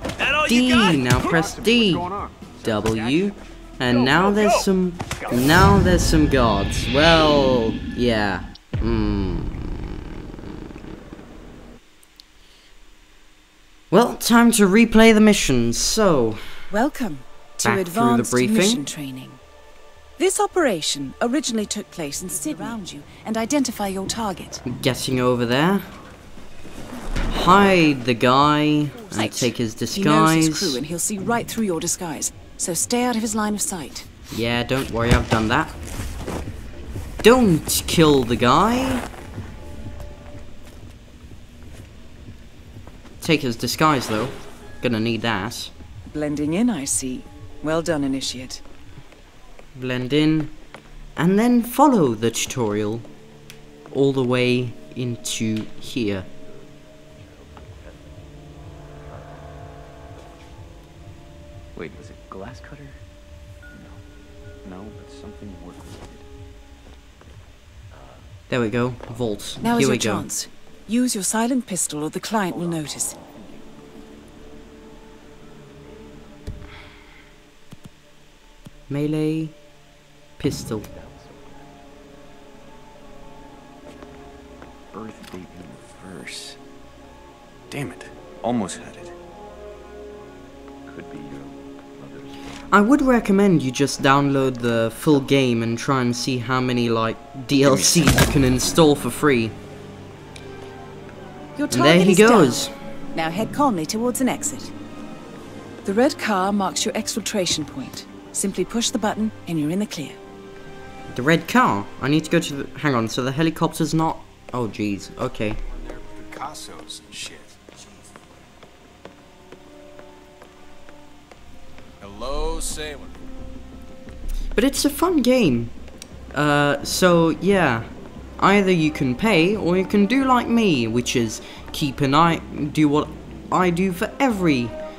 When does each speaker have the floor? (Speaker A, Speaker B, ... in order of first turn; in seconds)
Speaker A: 0.2-5.7, 115.7-118.3, 122.0-123.2
Speaker B: 0.4-2.1, 2.6-9.8, 13.9-16.7, 17.6-18.8, 24.6-25.9, 27.3-30.8, 34.3-35.8, 37.2-39.0, 43.2-45.7, 49.7-50.5, 51.2-53.1, 53.9-56.3, 68.5-70.2, 78.9-79.5, 80.4-80.9, 92.7-99.5, 101.7-102.7, 111.1-115.6, 124.5-125.7, 126.3-134.8
Speaker C: 16.7-19.4, 20.2-24.6, 28.9-34.1, 46.1-48.6, 69.6-73.2, 101.5-104.7, 105.8-110.2
Speaker D: 56.4-58.2, 58.9-59.5, 61.7-63.0, 63.7-64.0, 64.6-66.3, 67.9-68.2, 72.5-73.8, 75.8-76.2, 80.6-81.8, 84.9-86.6, 87.7-89.1, 90.9-92.7, 97.6-98.1